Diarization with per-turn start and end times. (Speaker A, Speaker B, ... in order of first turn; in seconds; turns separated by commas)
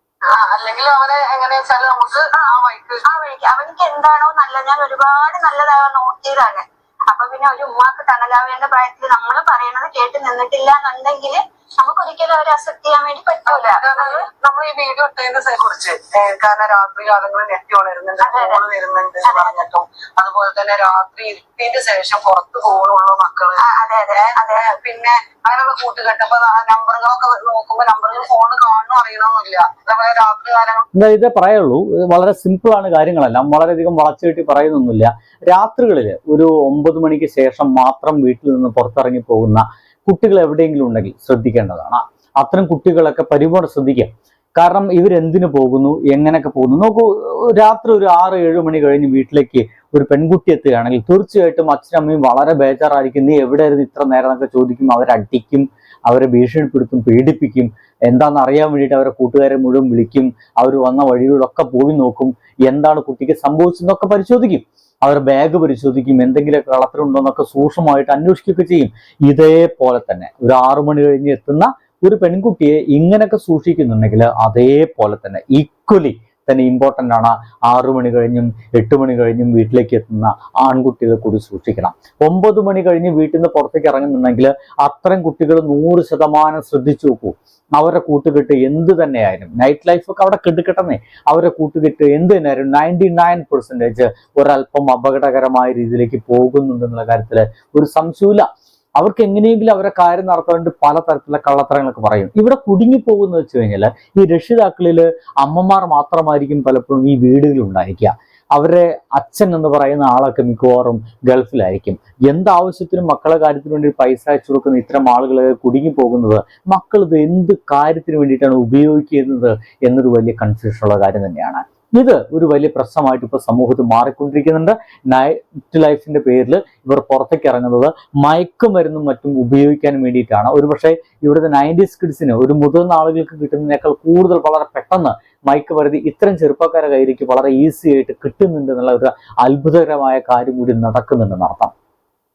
Speaker A: 0.2-3.0, Speaker B: 3.0-14.3, Speaker A: 13.5-23.6, Speaker B: 18.2-18.6, Speaker B: 19.2-19.6, Speaker B: 23.6-24.6, Speaker A: 24.1-30.9, Speaker C: 30.9-98.5, Speaker C: 99.0-141.7